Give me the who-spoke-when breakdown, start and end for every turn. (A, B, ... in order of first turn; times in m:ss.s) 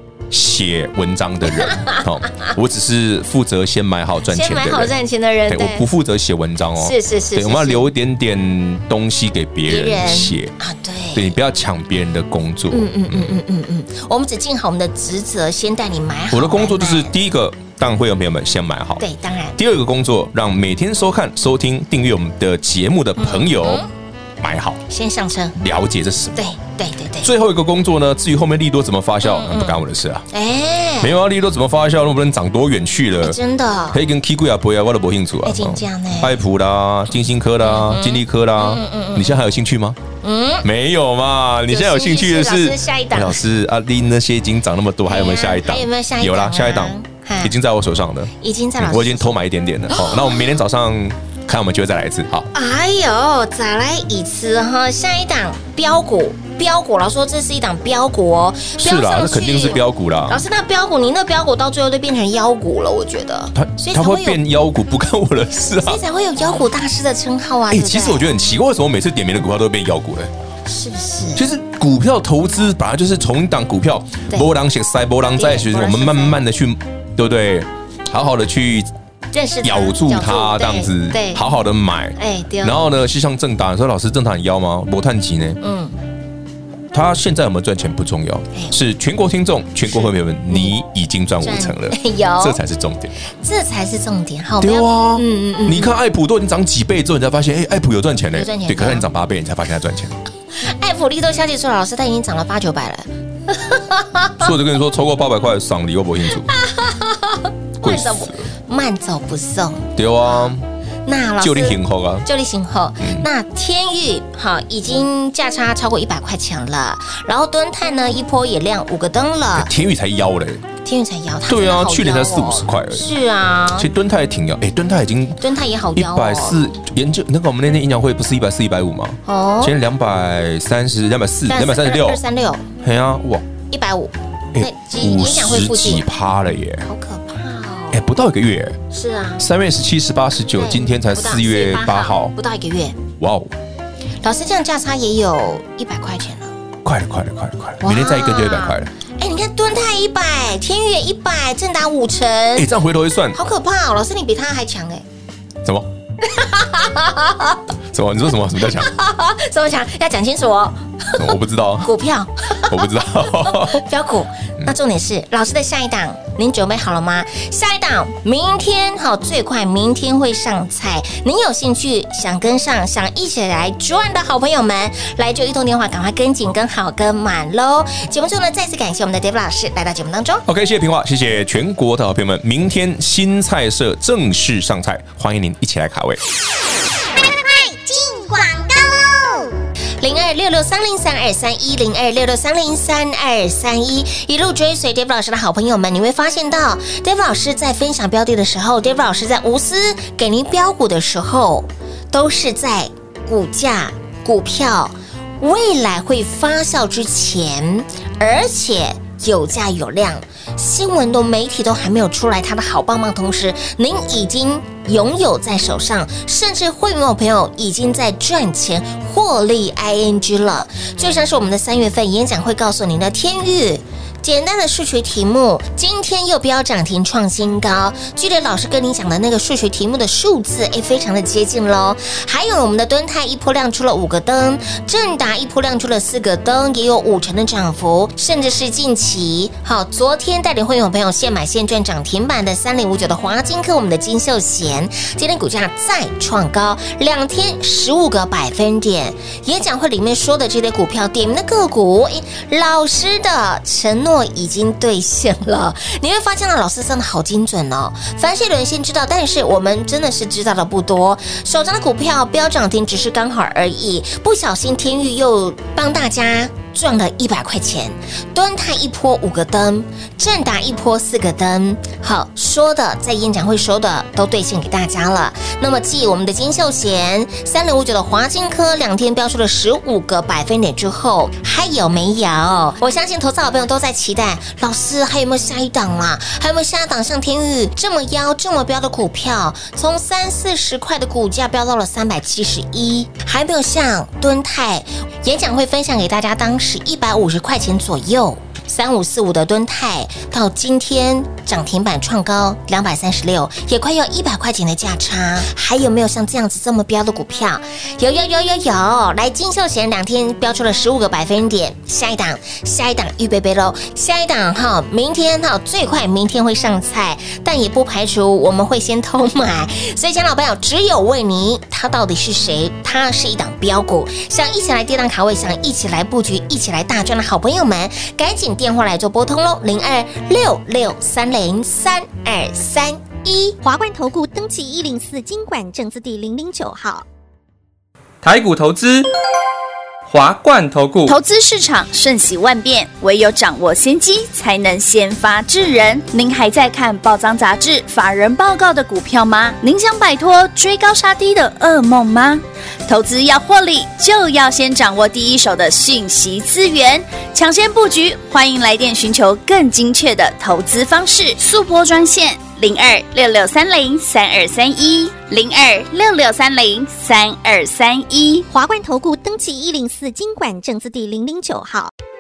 0:00.3-0:04.9 A
0:01.6-0:02.5 B
0:04.2-0:05.8 B
0:05.5-0:10.5 A
0:06.8-0:07.9 B
0:09.6-0:11.3 B
0:11.1-0:13.4 A
0:12.7-0:17.1 B
0:16.3-0:19.0 A
0:19.0-0:19.6 B
0:19.6-0:23.8 A
0:23.2-0:23.9 B
0:24.4-0:24.8 A
0:24.9-0:25.5 B
0:25.6-0:26.4 A
0:26.3-0:27.3 B
0:27.2-0:30.2 A
0:29.2-0:31.1 B
0:31.0-0:33.4 A
0:33.2-0:34.0 B
0:33.9-0:40.0 A
0:35.4-0:36.3 B
0:37.6-0:39.4 B
0:40.2-0:40.7 B
0:40.6-0:52.5 A
0:41.7-0:43.4 B
0:45.1-0:47.5 B
0:48.4-0:49.3 B
0:49.9-0:50.4 B
0:52.5-1:04.4 B
0:58.8-1:00.4 A
1:03.5-1:06.0 A
1:05.8-1:08.3 B
1:07.7-1:10.3 A
1:10.6-1:11.4 B
1:11.3-1:18.9 A
1:15.3-1:16.4 B
1:19.3-1:21.4 B
1:19.6-1:25.6 A
1:22.2-1:22.8 B
1:25.6-1:26.0 B
1:26.9-1:33.1 A
1:28.5-1:28.8 B
1:29.8-1:30.7 B
1:31.4-1:32.6 B
1:33.4-1:36.0 B
1:34.6-1:40.2 A
1:38.3-1:39.1 B
1:40.6-1:44.5 B
1:44.4-1:46.5 A
1:46.5-1:50.5 B
1:47.8-1:48.5 A
1:50.0-1:50.6 A
1:51.0-1:59.7 B
1:51.4-1:52.2 A
1:59.6-2:00.6 A
2:00.8-2:03.9 B
2:01.5-2:03.1 A
2:03.7-2:05.4 A
2:05.4-2:06.6 B
2:05.9-2:12.2 A
2:09.2-2:09.8 B
2:11.5-2:12.7 B
2:12.8-2:13.4 A
2:13.7-2:16.0 B
2:14.5-2:16.9 A
2:16.8-2:18.0 B
2:17.9-2:18.8 A
2:18.9-2:19.4 B
2:19.4-2:22.3 A
2:20.5-2:23.0 B
2:23.2-2:23.5 A
2:24.2-2:26.5 B
2:26.8-2:28.9 A
2:27.8-2:32.7 B
2:32.5-2:33.4 A
2:33.3-2:35.0 B
2:35.6-2:35.9 A
2:36.2-2:37.6 B
2:37.9-2:38.9 A
2:38.6-2:41.3 B
2:41.2-2:41.9 A
2:41.8-3:00.4 B
2:42.7-2:43.8 A
3:00.5-3:06.2 A
3:07.1-3:09.5 C
3:10.0-5:33.6 B
5:33.6-5:37.0 D
5:38.2-5:39.1 E
5:40.0-5:41.1 E
5:41.1-6:08.5 F
6:08.5-6:11.9 D